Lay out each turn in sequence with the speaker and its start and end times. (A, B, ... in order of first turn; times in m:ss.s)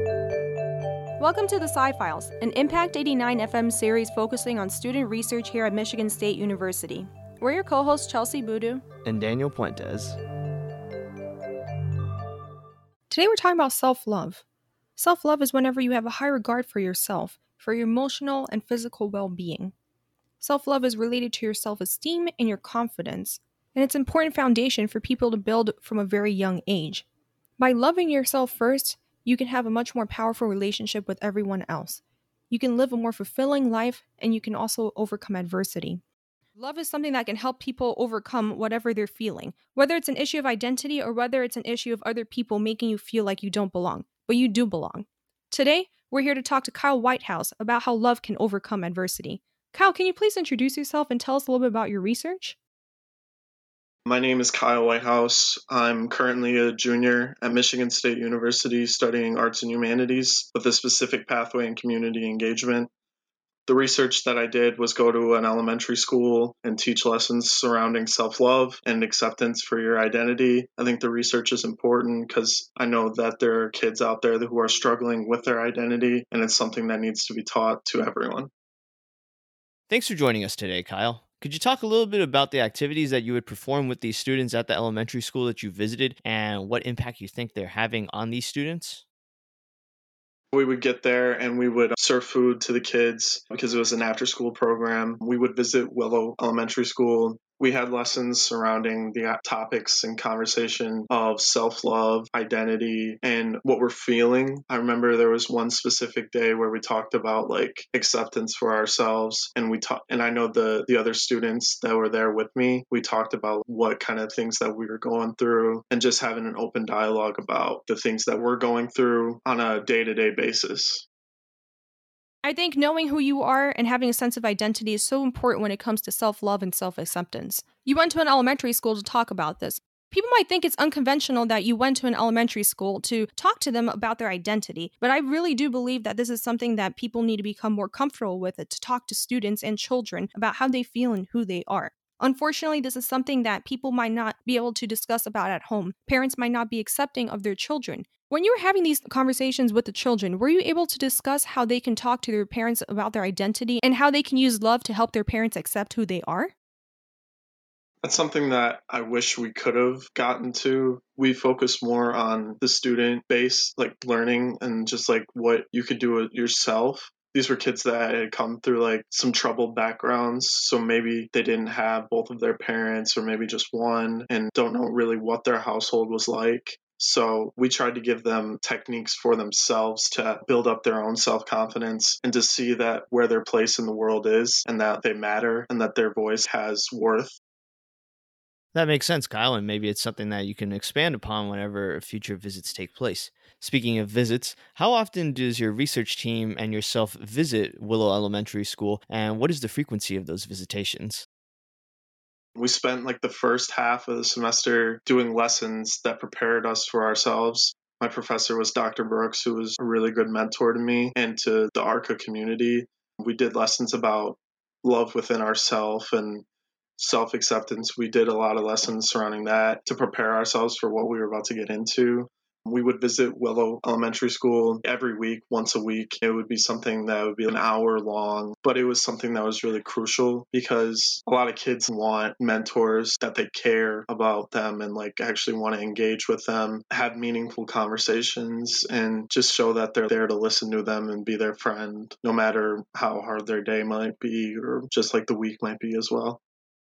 0:01.2-0:08.8 A
0:09.0-0:10.2 B
0:13.1-0:14.4 A
0:15.0-0:19.7 A
0:20.4-0:27.1 A
0:27.6-0:36.0 A
0:36.6-0:52.6 A
0:54.1-1:02.9 C
1:03.7-1:18.5 C
1:19.9-1:29.0 B
1:30.5-2:01.1 C
2:02.4-2:36.5 A
2:38.0-3:07.4 C
3:08.7-3:21.3 B
3:22.6-3:36.4 C
3:37.0-4:06.4 C